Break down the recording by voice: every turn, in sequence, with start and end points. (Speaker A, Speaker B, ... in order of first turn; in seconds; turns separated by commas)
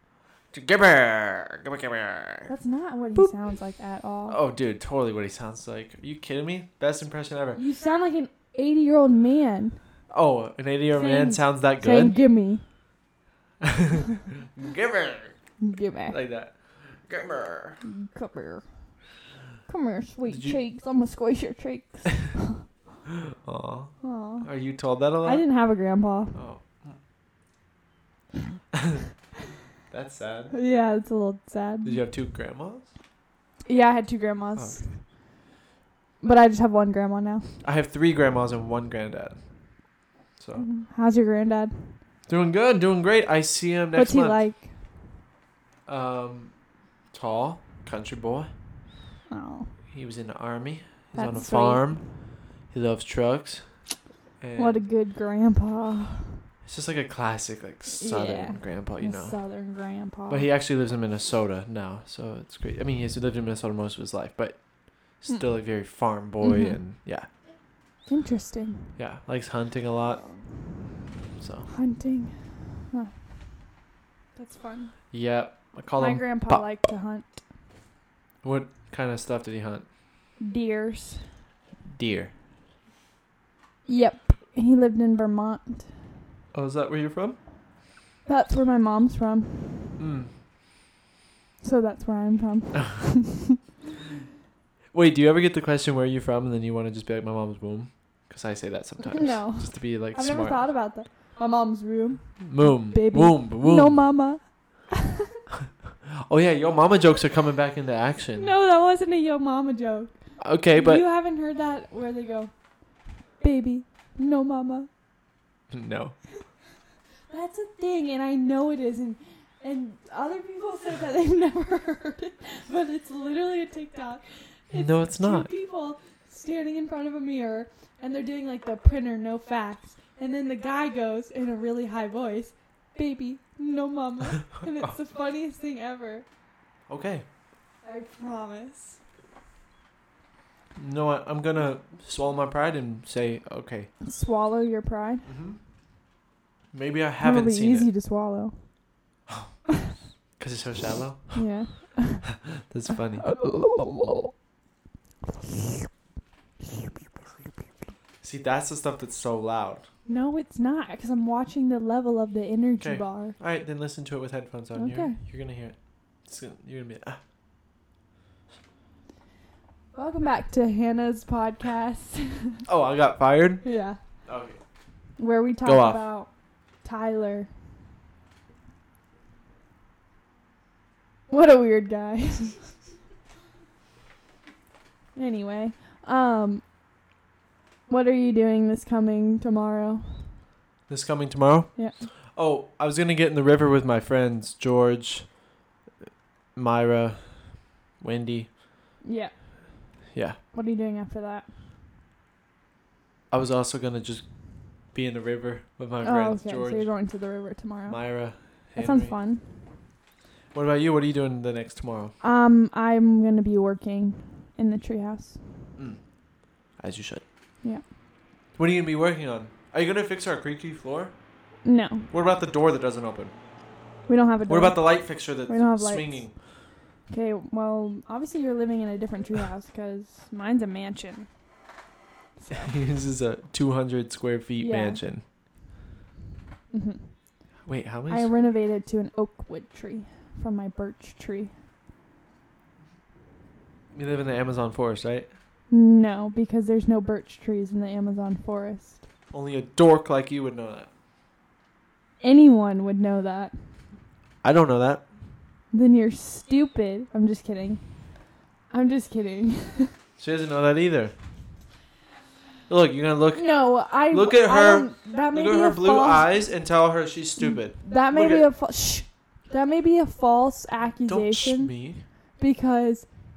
Speaker A: 0.5-2.5, Speaker B: 2.5-4.4, Speaker A: 4.3-7.6, Speaker B: 7.5-9.8, Speaker A: 10.1-12.2, Speaker B: 10.9-12.6, Speaker A: 13.6-15.4, Speaker B: 15.6-16.2, Speaker A: 16.1-17.8, Speaker B: 17.8-18.6, Speaker B: 19.7-22.6, Speaker A: 20.3-20.6, Speaker A: 23.4-25.4, Speaker B: 24.0-24.5, Speaker B: 25.2-26.4, Speaker A: 26.3-27.0, Speaker A: 28.7-29.0, Speaker A: 29.9-30.5, Speaker B: 30.5-32.0, Speaker A: 31.8-32.9, Speaker B: 33.6-34.9, Speaker A: 34.5-34.8, Speaker B: 36.2-37.5, Speaker A: 37.6-39.4, Speaker A: 40.4-40.7, Speaker B: 40.5-42.0, Speaker A: 42.3-44.4, Speaker B: 44.0-44.7, Speaker A: 45.9-46.5, Speaker A: 47.1-48.5, Speaker B: 49.3-49.7, Speaker A: 49.9-53.7, Speaker B: 51.1-51.9, Speaker A: 54.4-54.8, Speaker B: 54.5-56.4, Speaker A: 56.6-59.4, Speaker B: 57.9-60.5, Speaker A: 60.3-67.3, Speaker B: 66.4-66.8, Speaker B: 68.1-69.0, Speaker A: 69.0-70.2, Speaker B: 70.2-70.4, Speaker A: 71.4-71.7, Speaker B: 71.7-73.1, Speaker B: 74.3-75.0, Speaker A: 75.1-76.6, Speaker B: 76.0-77.2, Speaker A: 78.4-79.9, Speaker B: 80.4-81.2, Speaker A: 81.9-82.3, Speaker B: 83.8-85.9, Speaker A: 86.5-87.4, Speaker B: 88.2-89.9, Speaker A: 90.0-90.3, Speaker B: 91.6-93.6, Speaker A: 94.9-100.6, Speaker B: 99.0-105.3, Speaker A: 102.4-104.0, Speaker A: 106.1-108.5, Speaker B: 108.3-112.5, Speaker A: 110.4-111.0, Speaker B: 113.4-114.9, Speaker A: 115.7-116.1, Speaker B: 117.3-136.2, Speaker A: 124.7-125.5, Speaker A: 134.7-135.0, Speaker A: 136.9-137.2, Speaker B: 137.8-139.0, Speaker A: 140.8-143.9, Speaker B: 144.0-145.3, Speaker A: 145.2-145.6, Speaker A: 146.7-147.9, Speaker B: 147.2-148.6, Speaker A: 149.3-149.5, Speaker A: 150.4-153.3, Speaker B: 151.3-152.3, Speaker B: 153.2-154.3, Speaker A: 158.2-159.8, Speaker B: 160.1-163.4, Speaker A: 162.8-167.2, Speaker B: 164.7-165.2, Speaker B: 169.9-172.6, Speaker A: 172.7-173.6, Speaker B: 173.6-174.0, Speaker A: 174.2-174.6, Speaker B: 175.2-176.3, Speaker A: 175.6-176.0, Speaker B: 176.8-177.5, Speaker B: 181.3-182.7, Speaker B: 185.1-186.6, Speaker B: 187.9-190.3, Speaker A: 190.9-195.4, Speaker A: 196.5-198.5, Speaker B: 199.0-199.3, Speaker A: 200.1-200.4, Speaker B: 200.5-201.5, Speaker A: 203.3-206.9, Speaker B: 206.0-209.5, Speaker A: 207.9-209.2, Speaker A: 210.5-212.1, Speaker B: 212.2-215.4, Speaker A: 215.8-216.1, Speaker A: 216.7-217.2, Speaker A: 218.5-221.2, Speaker B: 221.6-222.1, Speaker A: 222.1-223.3, Speaker B: 224.1-226.5, Speaker A: 224.5-226.3, Speaker B: 227.1-231.3, Speaker B: 232.4-232.8, Speaker A: 232.5-235.2, Speaker B: 234.6-235.0, Speaker B: 236.7-237.1, Speaker A: 237.6-238.3, Speaker B: 238.1-241.5, Speaker A: 243.9-245.3, Speaker B: 245.7-249.0, Speaker A: 249.3-250.9, Speaker B: 252.2-253.5, Speaker A: 254.4-255.0, Speaker B: 255.7-257.8, Speaker B: 258.7-259.9, Speaker A: 260.2-261.1, Speaker A: 262.7-268.5, Speaker B: 263.3-266.3, Speaker B: 267.4-271.7, Speaker A: 271.1-272.0, Speaker B: 272.4-273.1